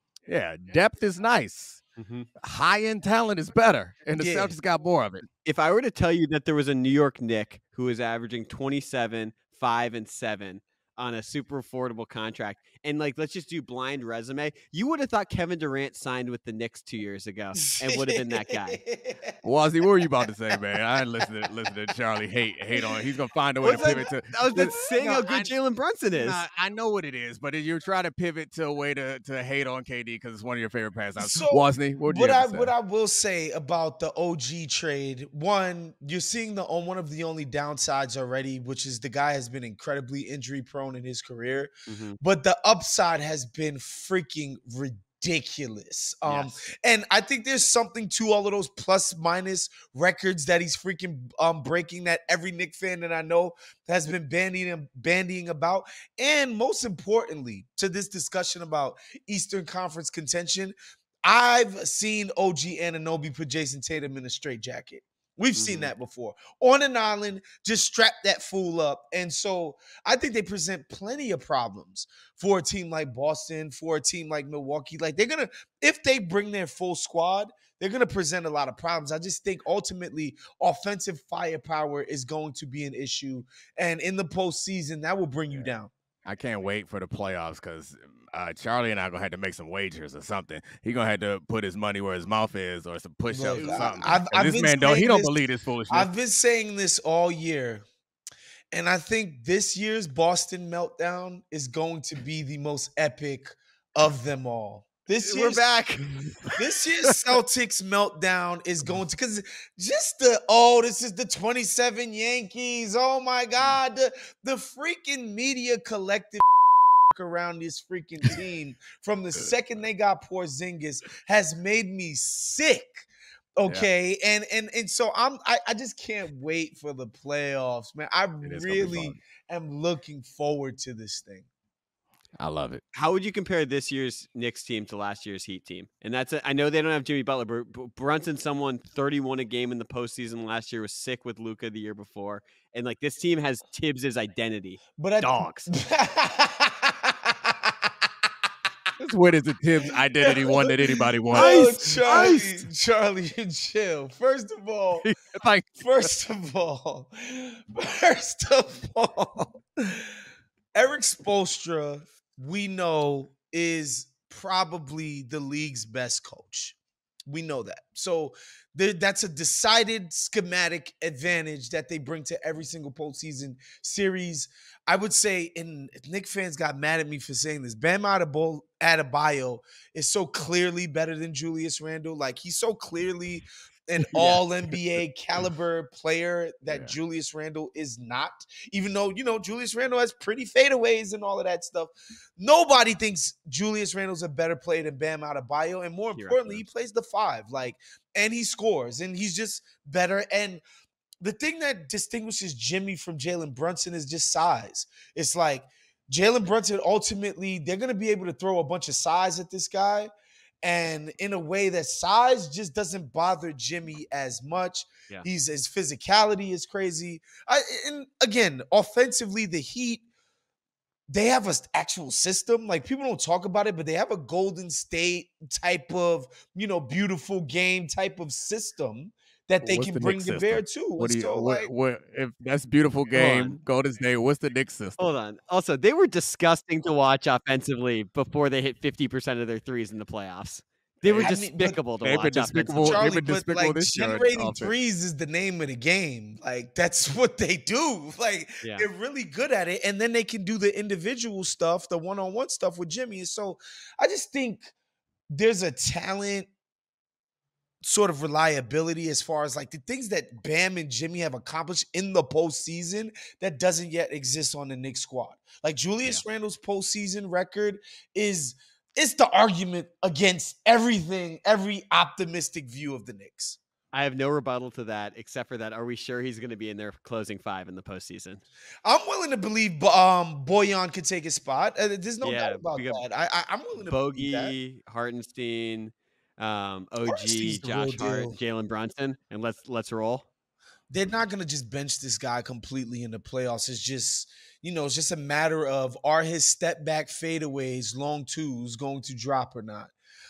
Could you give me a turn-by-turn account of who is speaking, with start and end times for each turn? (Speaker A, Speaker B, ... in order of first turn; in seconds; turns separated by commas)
Speaker A: 0.3-1.8, Speaker B: 2.0-2.3, Speaker A: 2.4-5.3, Speaker C: 4.2-4.5, Speaker B: 5.5-18.8, Speaker C: 17.7-19.4, Speaker A: 19.4-25.5, Speaker B: 23.6-26.4, Speaker C: 23.6-24.9, Speaker A: 26.1-32.7, Speaker C: 31.2-85.9, Speaker B: 41.9-42.2, Speaker B: 46.2-46.5, Speaker B: 65.6-65.9, Speaker A: 86.2-96.1, Speaker C: 93.3-95.4, Speaker B: 93.6-93.9, Speaker C: 95.9-97.8, Speaker C: 98.7-105.7, Speaker B: 105.2-106.5, Speaker C: 106.6-116.4, Speaker C: 117.1-123.1, Speaker C: 123.6-131.5, Speaker A: 128.4-129.2, Speaker A: 132.4-132.8, Speaker B: 132.9-145.7, Speaker C: 145.0-147.9, Speaker A: 149.0-152.4, Speaker C: 149.8-155.1, Speaker B: 151.3-152.7, Speaker A: 155.3-156.1, Speaker C: 155.8-160.1, Speaker C: 160.8-166.8, Speaker C: 167.3-200.6, Speaker B: 184.0-184.4, Speaker A: 186.7-186.9, Speaker B: 196.2-196.6, Speaker C: 201.2-210.1, Speaker C: 210.6-220.1, Speaker C: 221.1-231.7, Speaker A: 229.6-235.0, Speaker B: 233.1-233.6, Speaker B: 235.0-243.0, Speaker A: 241.1-241.3, Speaker C: 241.1-241.8, Speaker A: 242.0-244.7, Speaker C: 242.8-254.7, Speaker B: 248.6-248.9, Speaker C: 255.3-256.5, Speaker C: 257.8-273.6, Speaker B: 273.9-278.4, Speaker C: 278.8-284.5, Speaker B: 282.2-283.0, Speaker B: 283.9-290.3, Speaker C: 287.1-288.4, Speaker C: 290.9-299.9